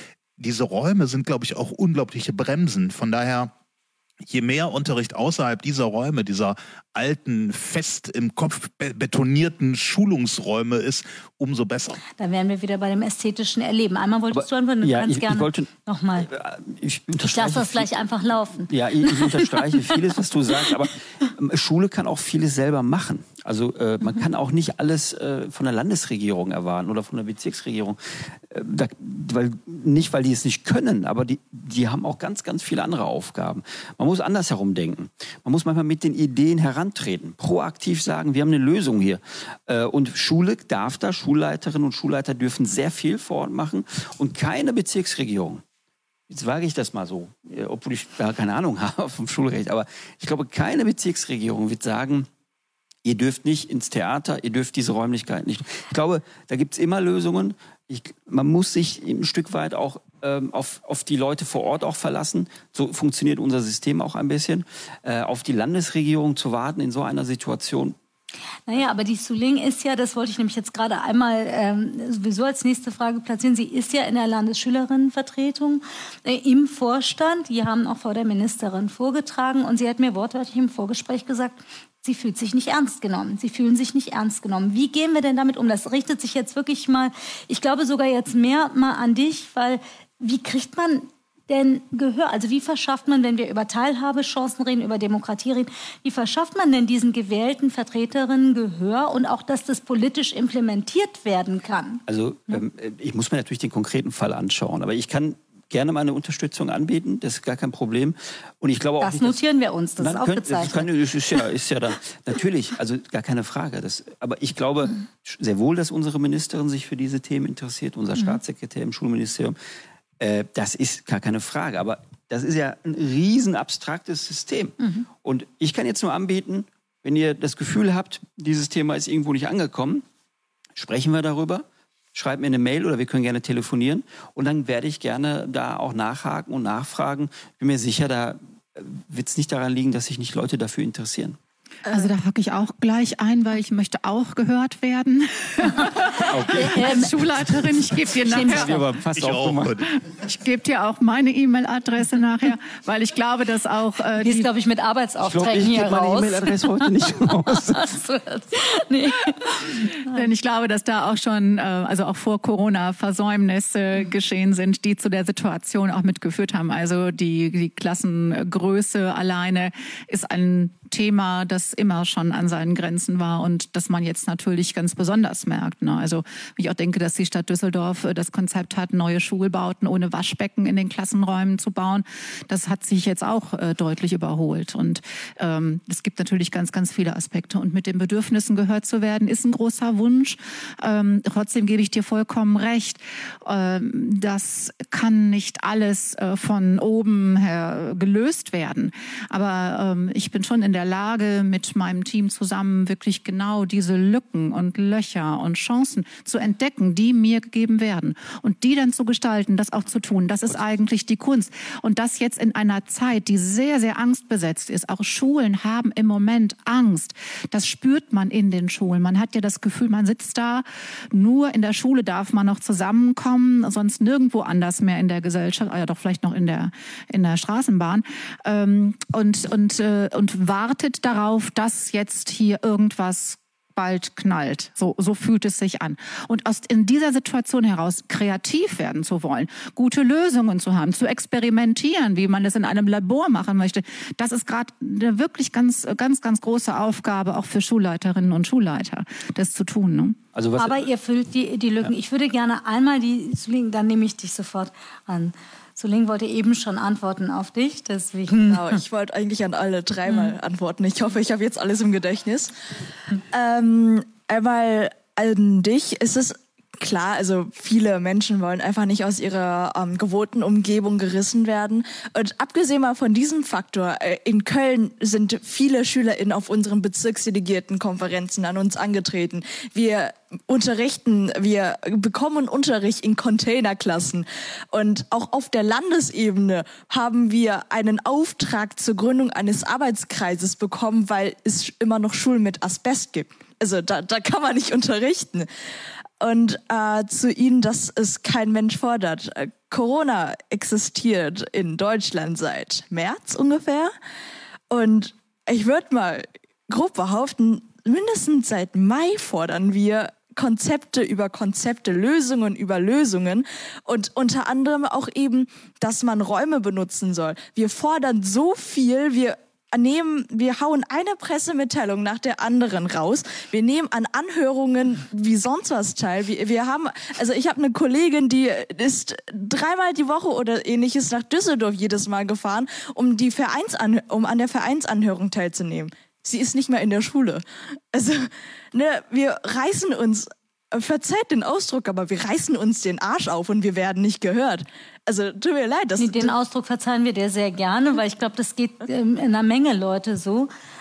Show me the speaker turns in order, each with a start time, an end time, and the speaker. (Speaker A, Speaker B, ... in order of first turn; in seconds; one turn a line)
Speaker A: 0.4-3.5
Speaker A: 4.3-12.0
Speaker B: 12.2-16.3
Speaker C: 14.3-17.9
Speaker B: 17.2-20.1
Speaker C: 18.7-45.6
Speaker C: 46.3-52.3
Speaker C: 53.0-68.0
Speaker B: 68.7-102.6
Speaker C: 102.1-109.4
Speaker B: 109.0-110.9
Speaker C: 110.0-119.6
Speaker C: 120.2-130.0
Speaker C: 130.8-141.4
Speaker D: 141.9-148.9
Speaker C: 146.2-149.8
Speaker B: 146.7-147.1
Speaker B: 148.2-148.8
Speaker A: 149.1-149.9
Speaker D: 150.0-154.5
Speaker B: 154.2-160.1
Speaker C: 155.2-157.9
Speaker D: 159.6-250.2
Speaker C: 250.3-250.9
Speaker B: 250.6-258.8
Speaker E: 258.4-262.5
Speaker E: 263.2-295.5
Speaker E: 296.2-303.9
Speaker E: 304.7-346.3
Speaker B: 346.0-350.5